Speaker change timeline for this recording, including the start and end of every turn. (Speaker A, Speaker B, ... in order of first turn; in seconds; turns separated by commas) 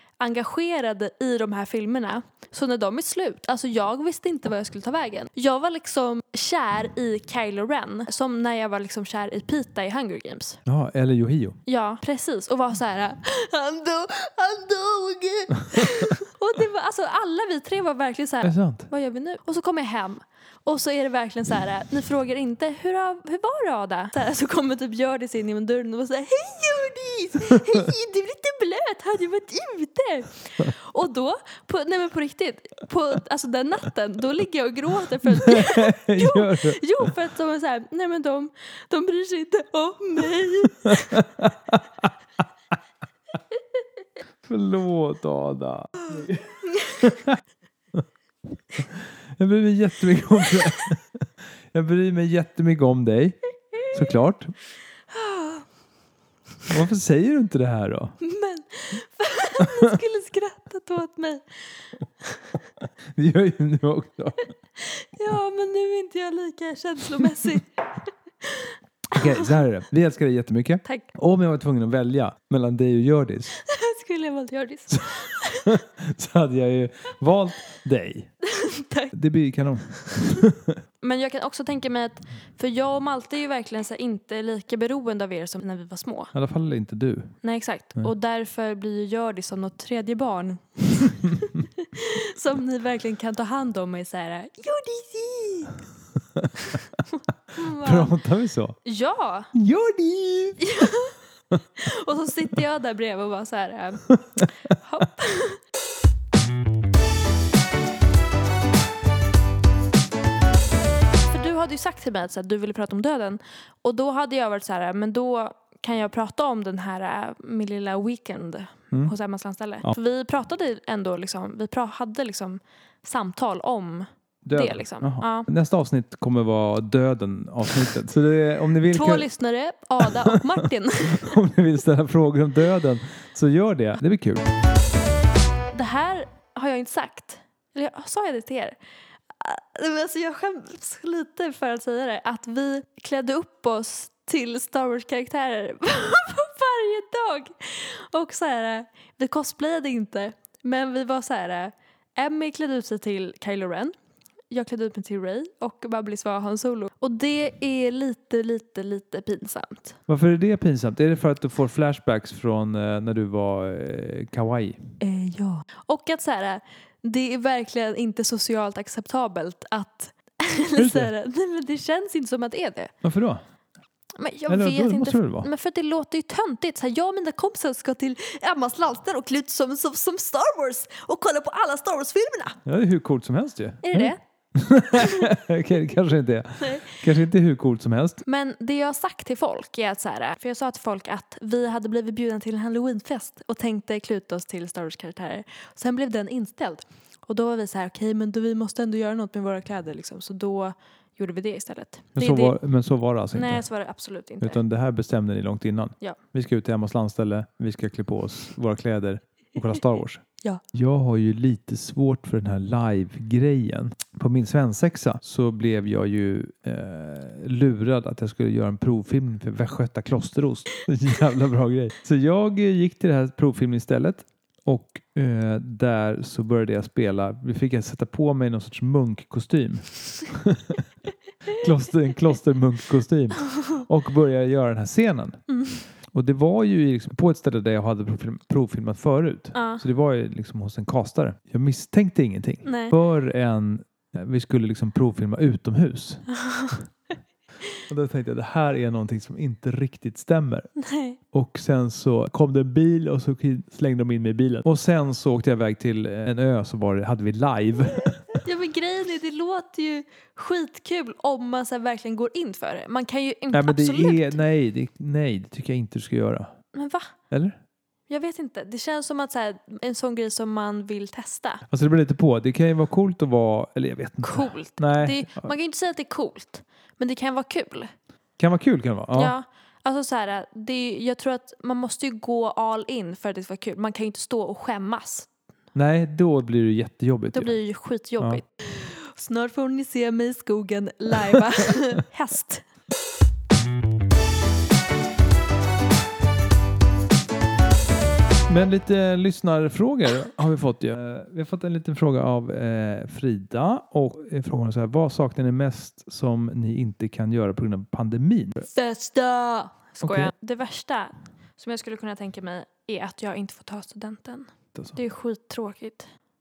Speaker A: 0.2-10.6, Speaker B: 10.7-11.6, Speaker A: 11.7-41.3, Speaker B: 18.4-18.9, Speaker B: 35.3-37.1, Speaker B: 40.9-42.0, Speaker B: 44.5-47.4, Speaker A: 46.7-47.0, Speaker B: 48.8-51.0, Speaker B: 51.7-53.4, Speaker B: 53.9-54.5, Speaker A: 55.1-55.7, Speaker B: 56.7-58.2, Speaker A: 58.2-62.5, Speaker B: 59.6-59.9, Speaker B: 63.1-64.5, Speaker A: 64.8-69.5, Speaker B: 69.1-73.5, Speaker A: 70.8-71.1, Speaker A: 73.5-75.8, Speaker B: 75.1-78.3, Speaker A: 78.4-79.1, Speaker B: 79.1-80.8, Speaker A: 80.0-80.3, Speaker A: 81.0-86.3, Speaker B: 86.3-87.4, Speaker A: 87.4-95.8, Speaker A: 97.5-98.2, Speaker B: 97.7-98.8, Speaker A: 98.8-99.5, Speaker B: 99.5-100.9, Speaker A: 100.6-101.2, Speaker A: 101.8-105.6, Speaker B: 104.1-104.4, Speaker A: 111.3-125.5, Speaker B: 124.5-129.3, Speaker A: 128.9-131.4, Speaker B: 130.1-130.4, Speaker B: 131.1-134.5, Speaker A: 135.7-138.8, Speaker A: 139.4-153.9, Speaker A: 154.5-160.0, Speaker B: 160.1-164.8, Speaker A: 165.0-172.9, Speaker B: 170.8-171.1, Speaker B: 173.0-173.4, Speaker A: 174.2-182.6, Speaker B: 174.5-175.5, Speaker B: 182.7-188.2, Speaker A: 183.8-184.2, Speaker A: 184.9-185.3, Speaker A: 186.6-187.0, Speaker A: 188.2-202.6, Speaker B: 202.2-203.7, Speaker A: 203.3-204.6, Speaker B: 204.4-230.8, Speaker B: 231.5-235.4, Speaker A: 235.5-235.8, Speaker B: 236.1-246.4, Speaker A: 239.5-239.8, Speaker A: 242.6-242.9, Speaker A: 246.4-246.8, Speaker B: 247.9-250.7, Speaker A: 250.8-251.2, Speaker B: 251.3-258.4, Speaker A: 258.4-264.4, Speaker B: 263.5-266.5, Speaker A: 266.7-267.1, Speaker B: 267.3-267.6, Speaker A: 268.1-271.6, Speaker B: 271.7-275.5, Speaker A: 274.2-277.9, Speaker B: 278.4-279.4, Speaker A: 279.1-285.3, Speaker B: 285.8-287.6, Speaker A: 287.3-292.6, Speaker B: 298.5-308.7, Speaker A: 308.6-316.1, Speaker B: 310.0-310.3